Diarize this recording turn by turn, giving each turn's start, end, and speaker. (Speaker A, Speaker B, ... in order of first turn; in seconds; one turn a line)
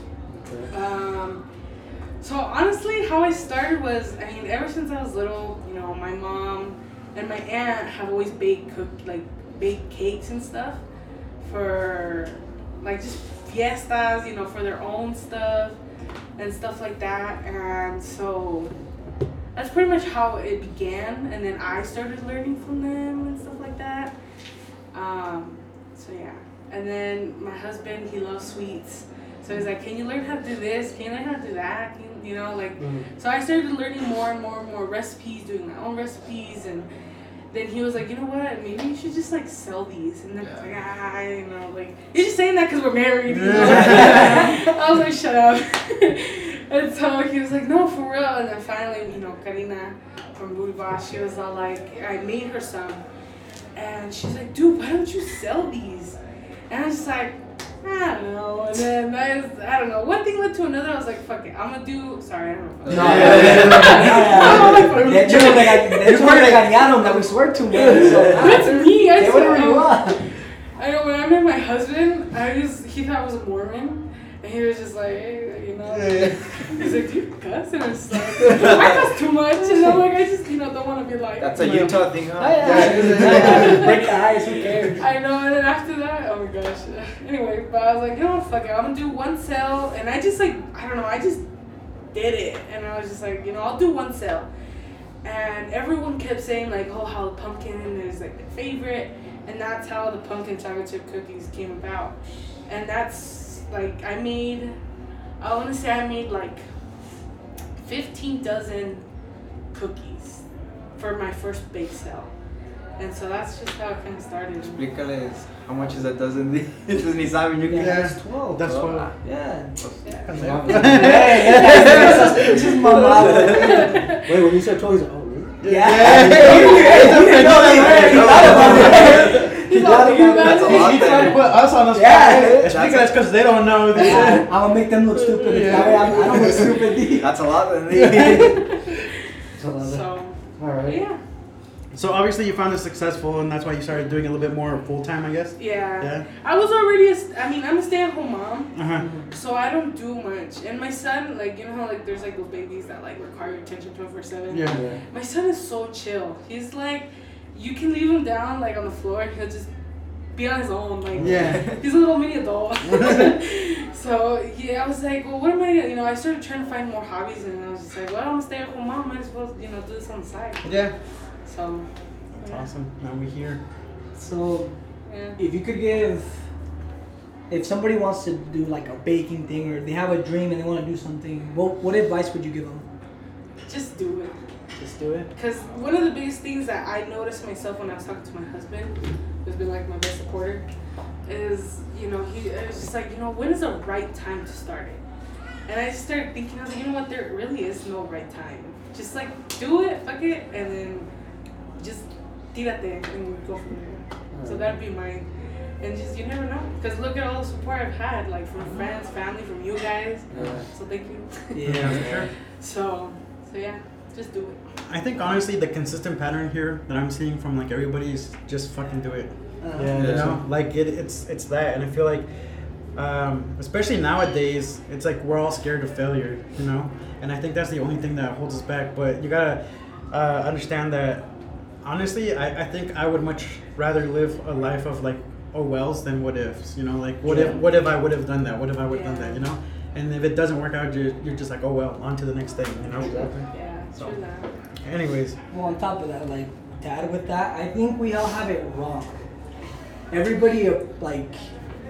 Speaker A: 0.3-0.7
Speaker B: 0.7-1.4
Speaker B: 2.2-10.8
Speaker B: 11.4-15.8
Speaker B: 16.4-18.7
Speaker B: 19.5-24.1
Speaker B: 24.9-36.9
Speaker B: 37.5-53.0
Speaker C: 40.4-40.7
Speaker D: 43.3-44.4
Speaker E: 43.6-44.5
Speaker B: 53.7-56.2
Speaker B: 56.7-65.9
Speaker C: 62.9-63.7
Speaker E: 62.9-70.2
Speaker D: 63.0-66.9
Speaker C: 67.8-68.5
Speaker B: 68.3-70.2
Speaker B: 70.8-82.0
Speaker C: 75.9-76.4
Speaker E: 79.6-80.0
Speaker C: 81.4-84.0
Speaker E: 82.4-85.1
Speaker A: 82.8-83.1
Speaker D: 82.9-83.4
Speaker B: 83.3-84.0
Speaker B: 85.0-91.4
Speaker B: 92.1-94.5
Speaker B: 95.2-102.1
Speaker B: 102.7-104.7
Speaker B: 105.4-106.6
Speaker B: 107.8-109.0
Speaker B: 109.7-110.4
Speaker B: 111.0-112.3
Speaker B: 113.0-114.8
Speaker C: 114.6-119.1
Speaker E: 117.7-118.1
Speaker D: 117.7-119.1
Speaker E: 119.2-119.7
Speaker C: 119.8-123.4
Speaker D: 120.3-121.3
Speaker A: 120.4-129.4
Speaker E: 120.7-123.9
Speaker D: 125.6-129.2
Speaker E: 125.6-132.7
Speaker C: 127.5-131.5
Speaker B: 129.7-131.3
Speaker D: 131.2-134.5
Speaker C: 132.6-133.1
Speaker E: 133.9-137.4
Speaker D: 135.4-136.7
Speaker C: 137.2-138.7
Speaker D: 138.0-138.4
Speaker A: 139.6-140.0
Speaker E: 139.7-140.0
Speaker B: 139.8-140.3
Speaker A: 140.6-141.0
Speaker B: 140.8-141.2
Speaker D: 141.9-146.2
Speaker B: 145.6-148.7
Speaker D: 148.7-149.1
Speaker A: 148.9-149.2
Speaker B: 149.3-159.7
Speaker D: 154.5-154.8
Speaker A: 154.7-155.0
Speaker B: 160.3-170.6
Speaker A: 161.1-161.7
Speaker D: 161.2-161.6
Speaker C: 161.3-161.8
Speaker D: 162.8-163.3
Speaker D: 170.6-170.9
Speaker B: 171.4-171.9
Speaker D: 172.3-173.6
Speaker E: 174.1-174.7
Speaker B: 175.1-175.4
Speaker E: 175.4-176.4
Speaker E: 177.5-182.8
Speaker B: 183.7-184.3
Speaker E: 184.8-185.3
Speaker B: 185.3-190.6
Speaker B: 191.2-195.0
Speaker B: 195.7-201.1
Speaker B: 201.8-205.2
Speaker A: 204.3-204.7
Speaker B: 205.8-211.6
Speaker A: 210.3-210.6
Speaker E: 211.5-212.1
Speaker D: 211.6-212.3
Speaker B: 212.6-214.6
Speaker D: 214.9-222.3
Speaker E: 219.6-220.2
Speaker A: 219.8-220.4
Speaker C: 220.0-220.3
Speaker D: 222.9-231.2
Speaker D: 231.8-244.2
Speaker A: 237.2-237.6
Speaker B: 238.9-239.5
Speaker A: 242.9-243.3
Speaker B: 243.5-244.5
Speaker D: 244.8-245.3
Speaker E: 245.5-249.2
Speaker E: 250.1-251.4